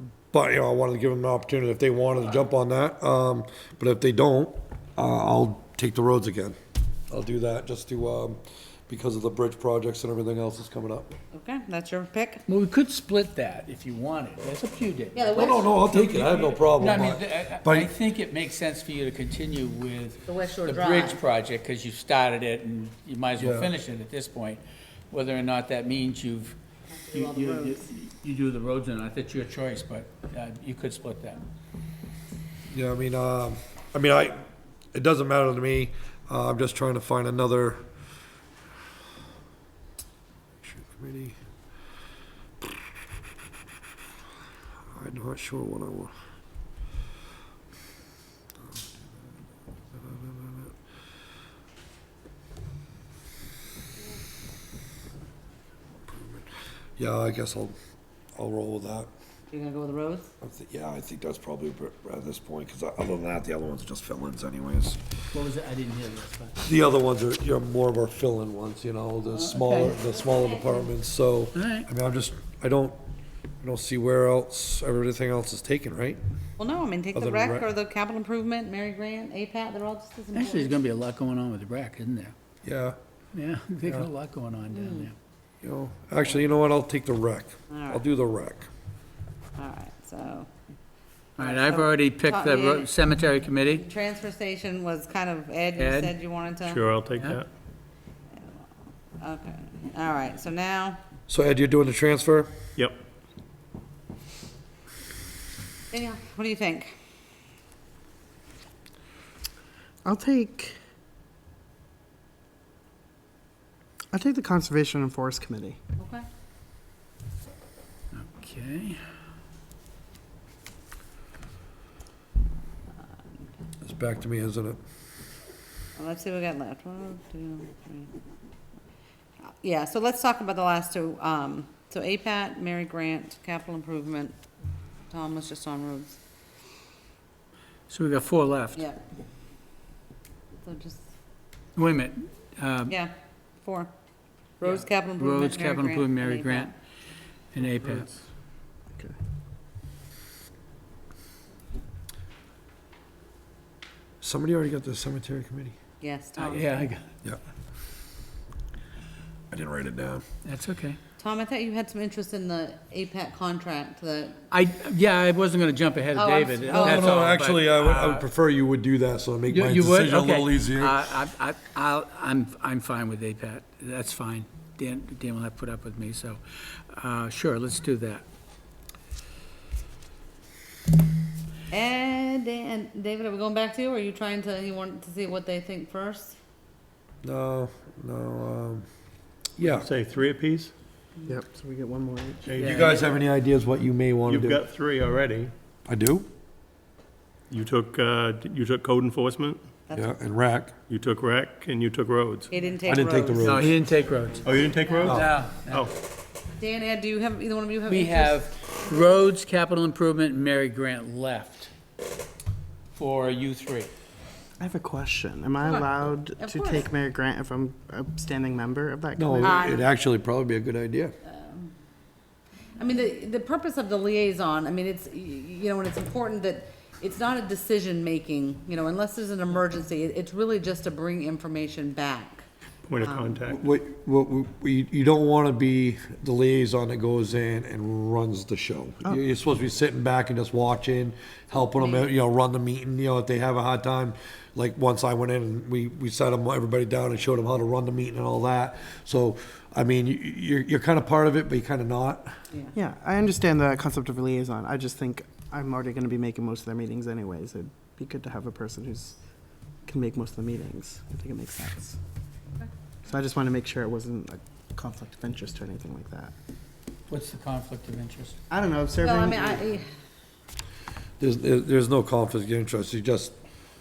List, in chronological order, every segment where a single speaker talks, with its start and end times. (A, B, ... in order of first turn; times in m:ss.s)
0:00.3-0:06.6 A
0:07.1-0:11.1 A
0:11.3-0:12.4 B
0:12.5-0:26.6 C
0:15.1-0:15.7 B
0:15.3-0:17.9 A
0:20.3-0:21.2 B
0:23.4-0:23.7 A
0:26.9-0:27.8 B
0:27.1-0:31.4 C
0:32.7-0:37.8 A
0:40.6-0:41.4 A
0:44.9-0:46.1 A
0:49.9-0:50.7 A
0:56.0-0:57.7 A
0:58.4-0:59.1 A
0:59.5-1:00.3 B
1:00.4-1:05.0 A
1:05.3-1:06.6 C
1:06.6-1:13.0 A
1:09.3-1:10.0 C
1:10.0-1:10.9 B
1:11.5-1:11.9 C
1:13.6-1:16.2 A
1:16.6-1:20.7 B
1:17.1-1:17.7 A
1:20.3-1:22.3 C
1:22.6-1:23.0 A
1:23.3-1:25.1 C
1:24.7-1:25.1 B
1:25.6-1:28.7 A
1:27.7-1:28.0 B
1:29.6-1:30.5 B
1:31.4-1:33.8 C
1:31.4-1:32.9 B
1:33.6-1:36.8 B
1:35.8-1:36.2 C
1:36.6-1:37.5 D
1:37.2-1:37.4 C
1:39.2-1:41.0 B
1:41.3-1:42.5 A
1:45.9-1:46.9 B
1:50.0-1:50.8 E
1:54.1-1:55.8 E
1:56.0-1:56.2 B
1:58.1-1:59.0 C
2:03.8-2:04.8 A
2:06.0-2:08.1 B
2:09.6-2:14.4 B
2:15.1-2:16.2 B
2:17.9-2:18.8 C
2:18.8-2:19.0 B
2:20.6-2:21.0 B
2:21.8-2:22.9 C
2:22.9-2:23.9 B
2:24.6-2:26.7 B
2:24.6-2:26.7 C
2:27.5-2:28.1 C
2:34.2-2:35.7 A
2:36.0-2:36.7 B
2:36.4-2:37.0 C
2:39.5-2:40.2 A
2:40.4-2:41.0 C
2:41.2-2:44.4 B
2:44.5-2:48.2 C
2:46.1-2:47.2 B
2:46.7-2:51.0 A
2:49.5-2:58.2 C
3:01.7-3:06.4 B
3:07.2-3:08.8 A
3:09.6-3:09.9 A
3:09.6-3:10.7 D
3:11.2-3:12.6 E
3:12.4-3:13.1 D
3:12.6-3:14.6 A
3:12.6-3:13.0 C
3:14.3-3:15.5 D
3:15.8-3:16.3 A
3:17.5-3:19.6 D
3:19.9-3:20.2 B
3:19.9-3:20.7 A
3:20.9-3:22.5 D
3:22.5-3:23.7 B
3:22.8-3:23.7 A
3:23.4-3:25.9 C
3:24.4-3:25.9 D
3:24.6-3:25.1 B
3:25.0-3:25.3 A
3:26.6-3:29.2 B
3:27.9-3:31.7 C
3:32.9-3:33.9 C
3:34.6-3:39.7 E
3:35.6-3:36.9 B
3:39.2-3:41.1 A
3:39.4-3:39.9 B
3:41.2-3:41.7 B
3:42.8-3:52.4 B
3:52.9-3:53.6 D
3:53.0-3:53.4 B
3:53.5-4:12.3 A
4:01.7-4:02.1 B
4:12.7-4:19.2 E
4:19.8-4:22.0 E
4:23.0-4:26.3 E
4:27.1-4:28.4 C
4:28.5-4:29.7 E
4:29.0-4:29.9 B
4:31.2-4:33.3 A